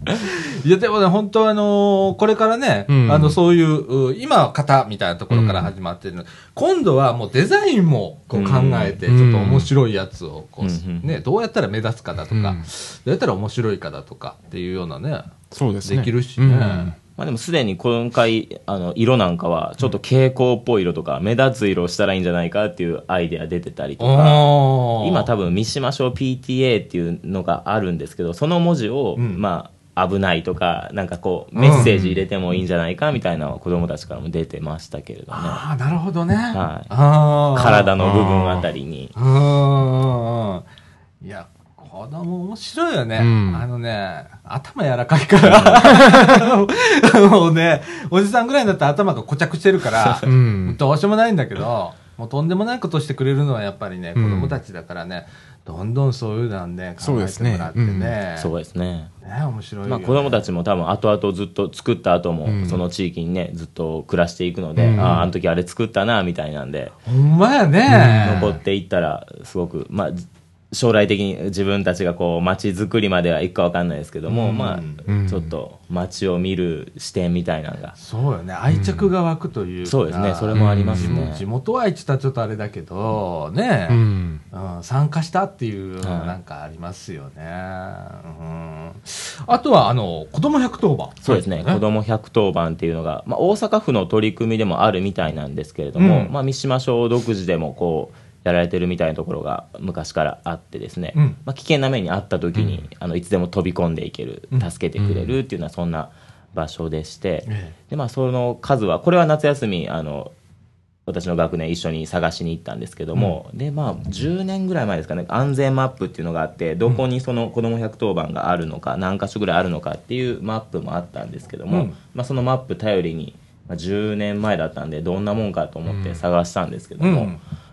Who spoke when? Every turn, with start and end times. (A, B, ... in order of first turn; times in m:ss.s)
0:00.2-0:15.3 A
0:02.9-0:03.4 B
0:05.3-0:05.7 B
0:08.3-0:09.0 C
0:09.1-0:09.7 B
0:10.6-0:11.2 C
0:12.3-0:12.6 B
0:15.5-0:17.0 B
0:15.8-0:16.9 A
0:17.2-0:35.6 C
0:24.0-0:25.3 A
0:29.2-0:29.4 A
0:31.6-0:31.9 A
0:31.7-0:32.2 B
0:35.3-0:37.9 A
0:36.5-0:36.9 C
0:37.5-0:39.1 C
0:38.0-0:38.7 B
0:39.2-0:40.6 A
0:41.2-0:58.5 A
0:43.2-0:43.6 B
0:45.4-0:45.9 C
0:45.9-0:46.4 B
0:50.2-0:50.8 B
0:54.2-0:54.6 B
0:57.0-0:58.2 B
0:58.4-0:59.1 C
0:59.2-1:00.4 A
0:59.9-1:07.0 C
1:02.5-1:02.8 B
1:04.8-1:05.2 B
1:04.8-1:05.3 A
1:07.1-1:08.6 A
1:07.9-1:08.5 B
1:08.2-1:18.0 C
1:14.3-1:15.0 A
1:15.1-1:15.5 B
1:18.0-1:31.8 A
1:18.7-1:19.1 B
1:19.8-1:21.4 C
1:20.5-1:21.3 B
1:23.9-1:24.4 B
1:26.0-1:26.4 C
1:31.2-1:50.3 C
1:36.0-1:36.3 A
1:42.6-1:42.8 B
1:45.0-1:45.4 B
1:47.5-1:47.7 A
1:51.1-2:07.3 C
2:01.7-2:02.0 A
2:05.9-2:06.2 B
2:07.0-2:07.4 A